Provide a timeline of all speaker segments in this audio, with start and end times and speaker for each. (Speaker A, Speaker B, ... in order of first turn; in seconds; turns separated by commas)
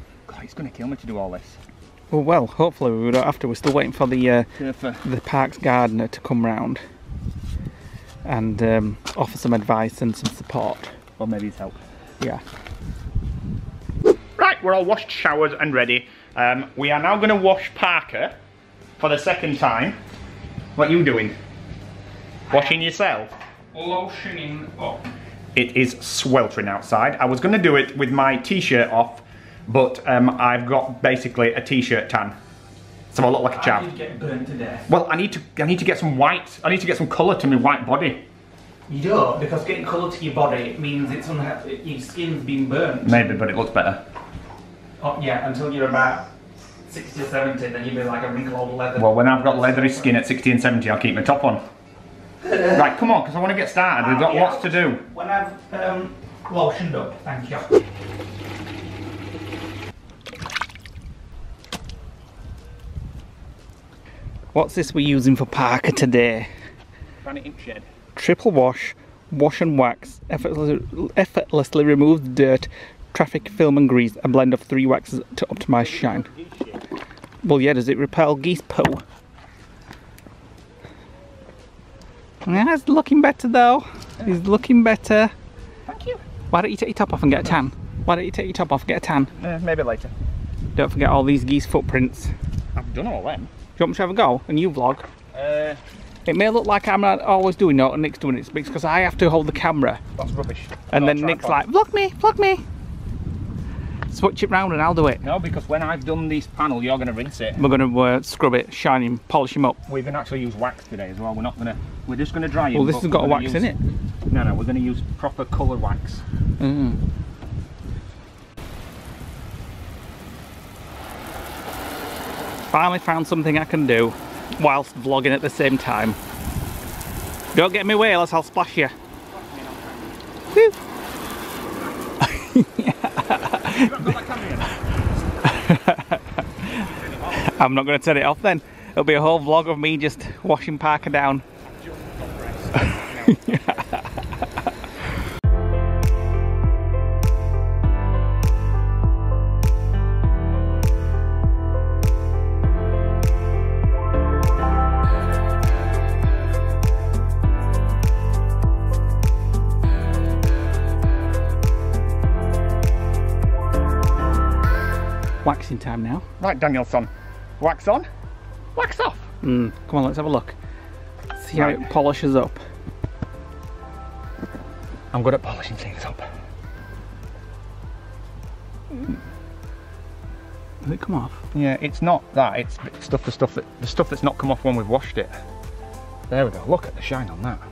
Speaker A: 0.3-1.6, Speaker B: 2.1-4.5, Speaker A: 4.6-5.0, Speaker B: 5.0-6.8, Speaker B: 8.2-10.9, Speaker A: 11.2-11.8, Speaker A: 14.4-18.4, Speaker A: 19.0-20.0, Speaker A: 20.8-21.4, Speaker B: 22.5-22.8, Speaker A: 22.5-23.3, Speaker B: 23.7-25.0, Speaker A: 25.6-32.4, Speaker A: 33.1-33.9, Speaker B: 33.5-34.9, Speaker A: 34.9-38.2, Speaker B: 38.9-43.4, Speaker A: 43.0-44.0, Speaker B: 45.0-46.3, Speaker B: 46.9-50.2, Speaker A: 49.0-51.6, Speaker B: 52.4-52.9, Speaker A: 52.7-55.0, Speaker B: 54.0-57.7, Speaker B: 64.5-66.5, Speaker A: 67.2-67.9, Speaker B: 68.2-76.3, Speaker A: 75.7-76.8, Speaker B: 77.4-79.0, Speaker B: 82.5-85.3, Speaker A: 85.9-86.2, Speaker B: 86.5-89.3, Speaker A: 89.3-90.1, Speaker B: 90.8-92.3, Speaker A: 92.8-93.5, Speaker B: 93.8-95.1, Speaker A: 95.3-95.8, Speaker B: 96.3-100.0, Speaker A: 100.2-101.6, Speaker B: 100.9-102.6, Speaker B: 104.1-105.3, Speaker A: 105.2-107.6, Speaker B: 107.6-109.8, Speaker A: 109.9-113.7, Speaker B: 112.7-113.8, Speaker A: 114.3-116.2, Speaker B: 116.6-117.0, Speaker B: 122.7-126.2, Speaker B: 127.5-128.9, Speaker A: 129.3-130.2, Speaker B: 132.2-134.2, Speaker A: 133.5-134.8, Speaker B: 135.4-141.4, Speaker A: 136.8-137.5, Speaker A: 141.7-143.8, Speaker B: 142.9-144.0, Speaker B: 165.4-166.2, Speaker A: 166.4-168.1, Speaker B: 168.8-170.6, Speaker B: 171.3-172.6, Speaker A: 171.5-171.9, Speaker A: 175.1-176.3, Speaker B: 180.8-181.4, Speaker A: 181.5-185.3, Speaker A: 186.3-187.6